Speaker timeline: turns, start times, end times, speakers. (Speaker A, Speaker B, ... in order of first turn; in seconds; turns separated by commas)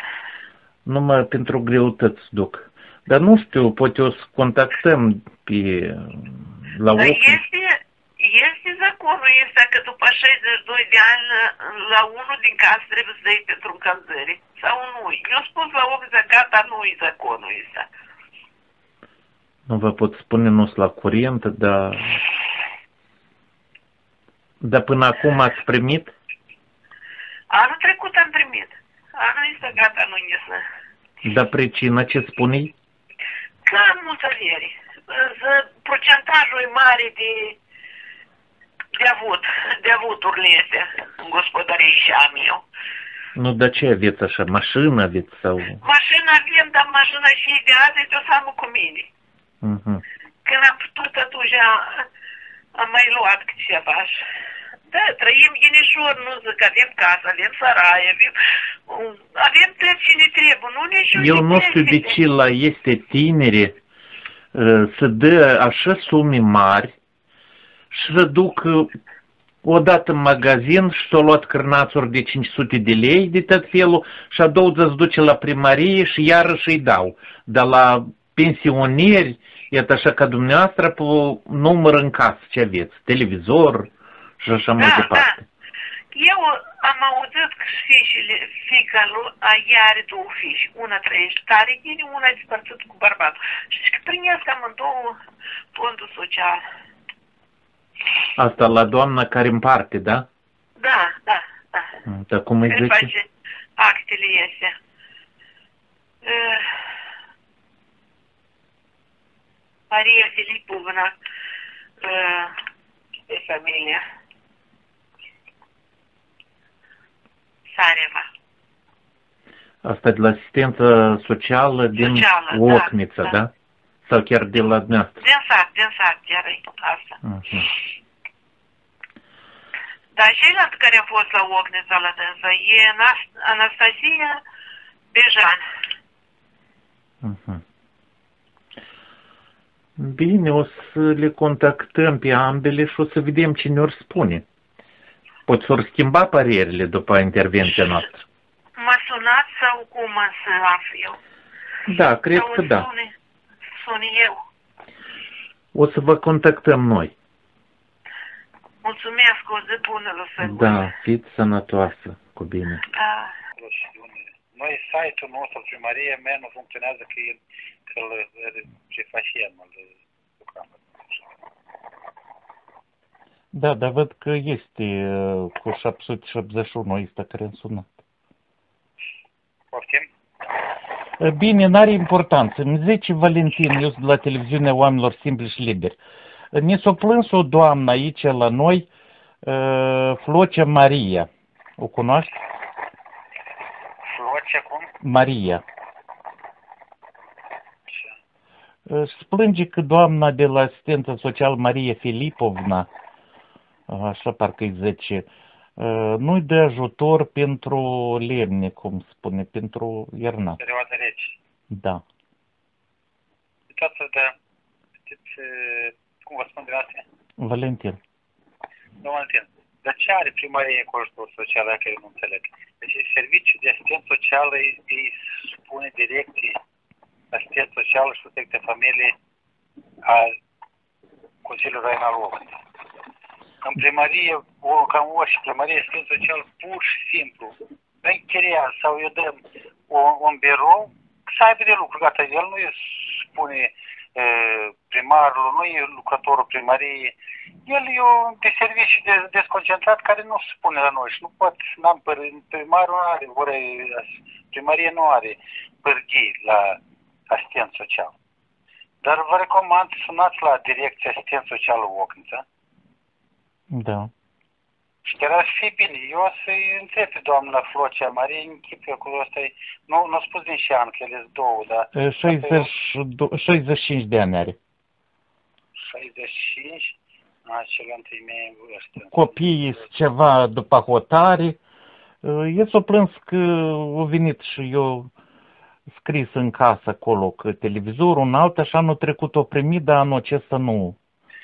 Speaker A: 0.8-7.4, Speaker B: 6.9-17.9, Speaker A: 19.7-22.2, Speaker A: 24.6-26.1, Speaker B: 27.5-30.6, Speaker A: 31.2-32.7, Speaker B: 33.6-37.6, Speaker B: 39.0-42.6, Speaker A: 43.4-45.8, Speaker B: 45.7-49.1, Speaker A: 49.6-50.0, Speaker B: 50.4-52.1, Speaker B: 52.7-54.2, Speaker B: 54.9-62.2, Speaker A: 61.1-63.7, Speaker A: 64.5-66.9, Speaker A: 67.9-68.9, Speaker A: 69.6-85.4, Speaker B: 84.8-85.3, Speaker B: 86.1-95.2, Speaker B: 95.7-96.6, Speaker A: 98.3-100.3, Speaker B: 100.8-102.0, Speaker A: 102.0-103.1, Speaker B: 102.7-104.8, Speaker B: 106.2-106.9, Speaker B: 109.9-111.1, Speaker B: 112.0-112.5, Speaker B: 113.3-114.0, Speaker B: 117.7-118.3, Speaker A: 119.8-123.5, Speaker B: 122.0-123.4, Speaker A: 124.0-125.2, Speaker B: 125.2-127.2, Speaker A: 127.2-127.7, Speaker B: 130.1-134.4, Speaker B: 135.1-135.6, Speaker A: 137.2-137.6, Speaker A: 140.0-144.4, Speaker A: 145.5-148.2, Speaker B: 148.8-151.2, Speaker A: 151.9-152.9, Speaker B: 152.3-153.1, Speaker B: 153.7-154.4, Speaker A: 155.7-157.1, Speaker B: 158.8-160.9, Speaker A: 160.4-162.8, Speaker B: 162.9-163.3, Speaker C: 163.5-171.3, Speaker A: 173.5-177.9, Speaker C: 179.7-180.1, Speaker A: 181.2-186.0, Speaker A: 186.5-188.9, Speaker A: 189.4-192.3, Speaker C: 194.0-194.9, Speaker A: 195.0-195.6, Speaker C: 197.9-198.1, Speaker A: 198.9-202.9, Speaker A: 203.9-210.6, Speaker C: 210.6-211.4, Speaker A: 211.7-212.0, Speaker C: 213.7-214.3, Speaker C: 215.1-217.1, Speaker A: 217.4-218.0, Speaker C: 219.0-226.6, Speaker C: 227.3-229.1, Speaker C: 230.0-230.3, Speaker C: 231.4-232.6, Speaker C: 233.6-258.2, Speaker C: 259.0-262.4, Speaker A: 263.7-264.1, Speaker C: 265.0-272.7, Speaker A: 271.9-274.6, Speaker C: 275.8-279.5, Speaker A: 279.0-281.6, Speaker A: 282.2-285.1, Speaker A: 286.0-291.0